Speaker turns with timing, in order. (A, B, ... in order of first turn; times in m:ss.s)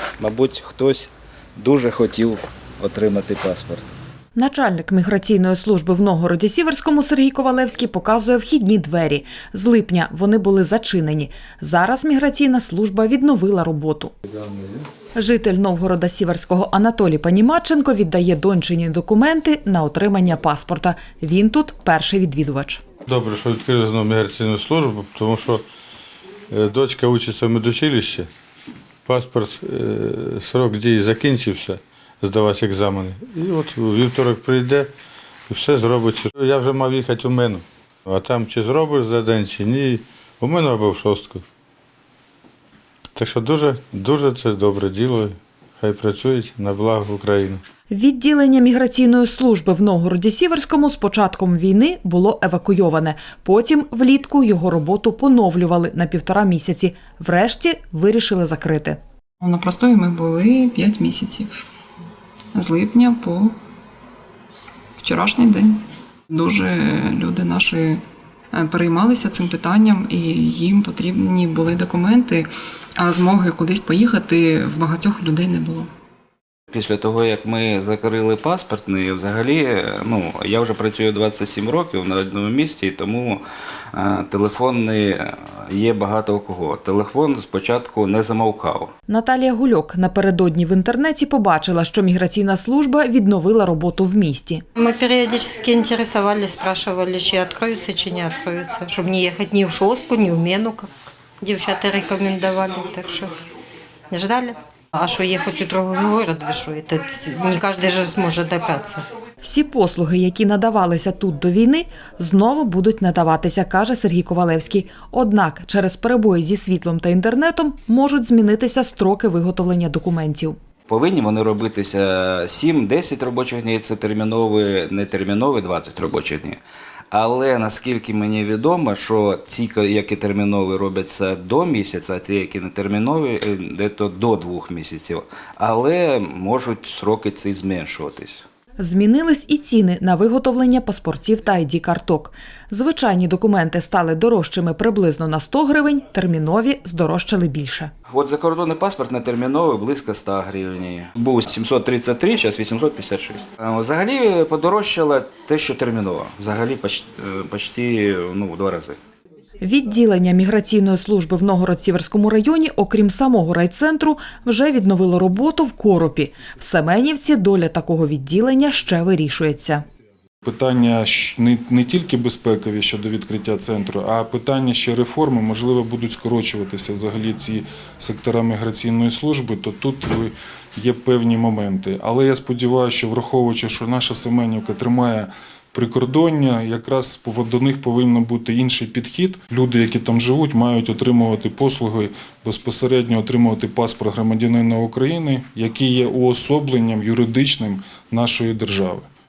0:00.2-0:04.0 A
0:04.4-0:14.1 B
0:14.4-0:14.8 C
0:15.2-0:22.8 B
0:23.1-0:25.6 C
0:26.5-0:28.3 C
0:29.1-0:34.9 C
0:35.5-0:41.4 C
0:43.2-0:47.6 C
0:47.9-0:59.0 B
0:59.4-1:01.6 D
1:02.5-1:03.6 D
1:05.0-1:08.0 D
1:08.5-1:15.9 D
1:16.7-1:23.4 A
1:23.9-1:28.9 A
1:29.1-1:34.6 B
1:34.8-1:43.4 E
1:44.1-1:49.0 E
1:49.4-2:00.6 B
2:00.9-2:06.6 A
2:07.1-2:18.4 A
2:18.8-2:27.9 B
2:28.1-2:39.0 A
2:39.6-2:49.8 B
2:50.4-3:19.1 F